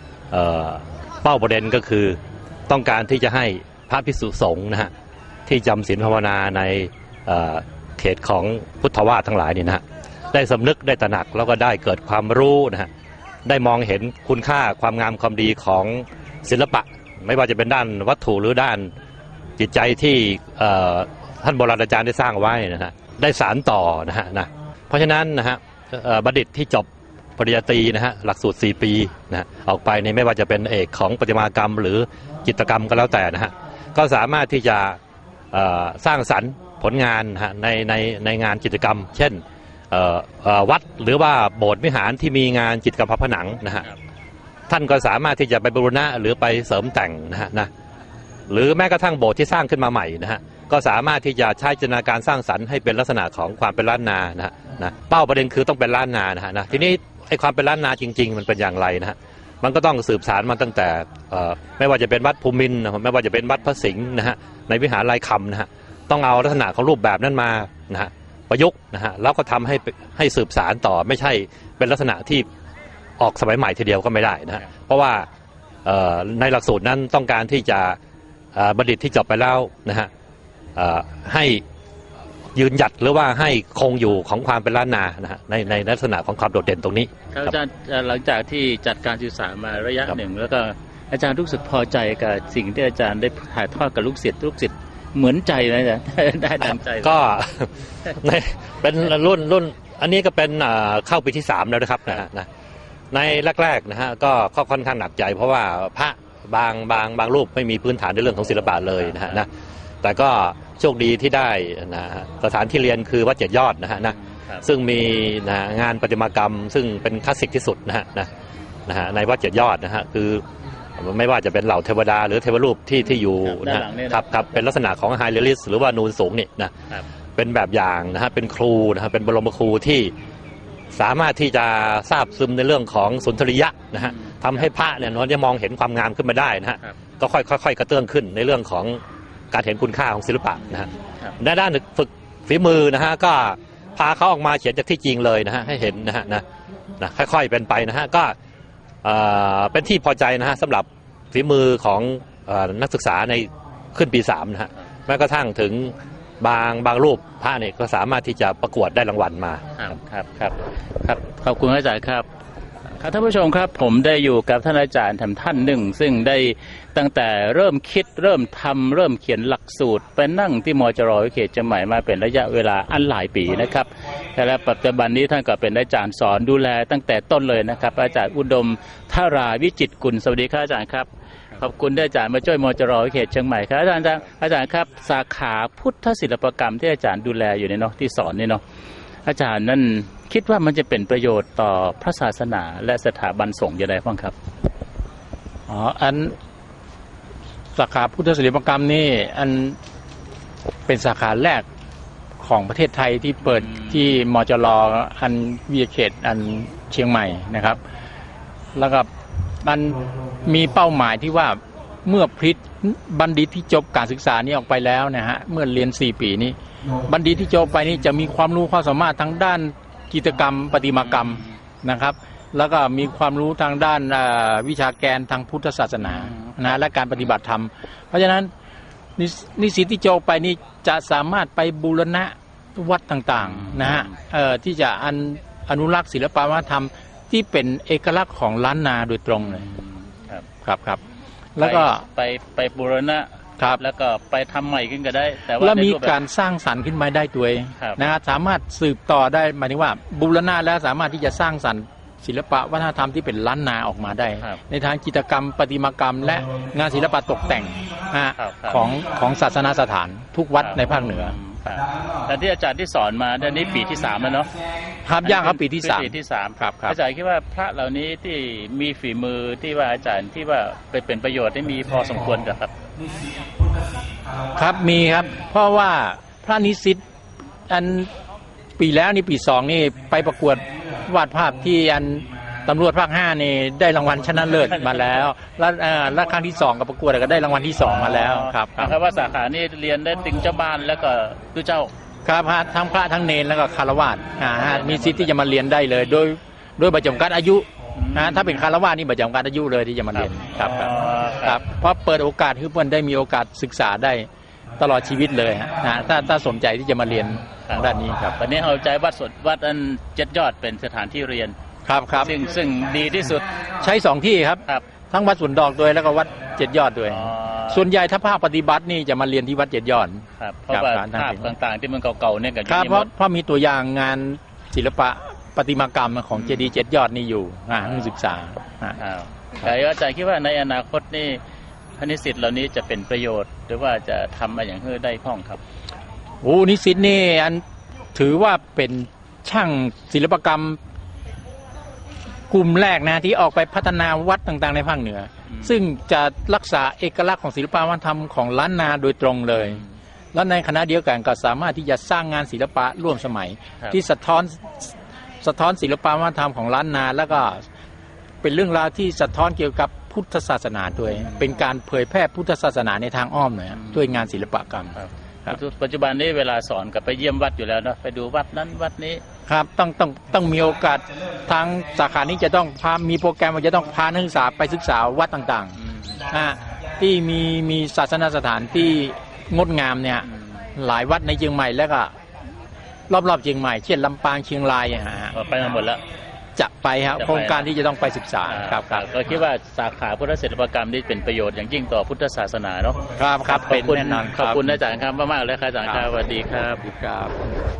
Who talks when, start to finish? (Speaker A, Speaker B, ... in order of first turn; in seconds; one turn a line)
Speaker A: 0.3-2.2
Speaker A: 2.7-4.9
Speaker A: 5.5-12.9
Speaker A: 13.5-18.9
Speaker A: 19.6-35.0
Speaker A: 35.5-43.9
Speaker A: 44.7-47.7
Speaker A: 48.5-72.5
Speaker A: 73.2-75.3
Speaker A: 75.8-78.0
Speaker A: 78.5-80.1
Speaker A: 80.8-81.6
Speaker A: 82.5-87.5
Speaker B: 87.3-97.2
Speaker A: 96.6-102.5
Speaker A: 103.1-109.5
Speaker B: 109.0-109.5
Speaker A: 110.0-118.3
Speaker B: 114.1-114.7
Speaker A: 118.9-120.4
Speaker A: 121.0-126.7
Speaker B: 123.4-124.5
Speaker A: 127.4-130.1
Speaker A: 130.9-139.0
Speaker B: 134.0-134.7
Speaker A: 139.5-146.4
Speaker A: 147.0-148.3
Speaker A: 149.0-159.6
Speaker B: 159.8-162.3
Speaker B: 163.0-188.6
Speaker B: 189.2-194.3
Speaker C: 195.7-196.4
Speaker C: 197.8-199.8
Speaker C: 200.9-201.7
Speaker C: 202.4-207.8
Speaker B: 203.6-204.1
Speaker C: 208.8-209.1
Speaker C: 209.6-228.5
Speaker B: 226.0-226.6
Speaker C: 229.2-239.7
Speaker B: 233.4-234.1
Speaker B: 239.4-240.4
Speaker C: 240.6-241.0
Speaker C: 241.6-242.0
Speaker B: 241.6-246.2
Speaker C: 245.6-261.4
Speaker B: 247.8-248.0
Speaker B: 258.4-258.9
Speaker B: 260.6-264.5
Speaker C: 265.0-267.0
Speaker B: 265.2-272.7
Speaker C: 274.5-277.0
Speaker C: 277.7-278.1
Speaker C: 278.8-288.9
Speaker B: 288.2-291.9
Speaker C: 292.2-308.4
Speaker B: 294.5-295.3
Speaker B: 297.9-298.6
Speaker B: 300.1-301.6
Speaker B: 307.6-311.6
Speaker C: 311.9-312.3
Speaker B: 312.1-313.4
Speaker C: 313.8-321.5
Speaker B: 317.1-317.9
Speaker B: 320.4-323.1
Speaker C: 322.7-329.0
Speaker B: 326.3-326.7
Speaker B: 327.8-328.1
Speaker B: 329.0-331.4
Speaker B: 332.0-335.6
Speaker C: 336.4-337.6
Speaker C: 338.1-340.8
Speaker C: 342.5-349.8
Speaker B: 349.6-349.9
Speaker C: 350.3-354.9
Speaker C: 355.4-357.6
Speaker C: 358.4-365.0
Speaker B: 361.1-361.4
Speaker B: 363.8-364.2
Speaker B: 364.9-369.2
Speaker C: 369.5-375.8
Speaker B: 375.8-376.2
Speaker C: 376.3-382.1
Speaker B: 380.3-380.6
Speaker C: 383.1-385.4
Speaker B: 385.3-386.0
Speaker C: 386.6-389.1
Speaker B: 387.2-387.7
Speaker B: 388.5-396.9
Speaker C: 393.1-394.6
Speaker C: 396.8-397.6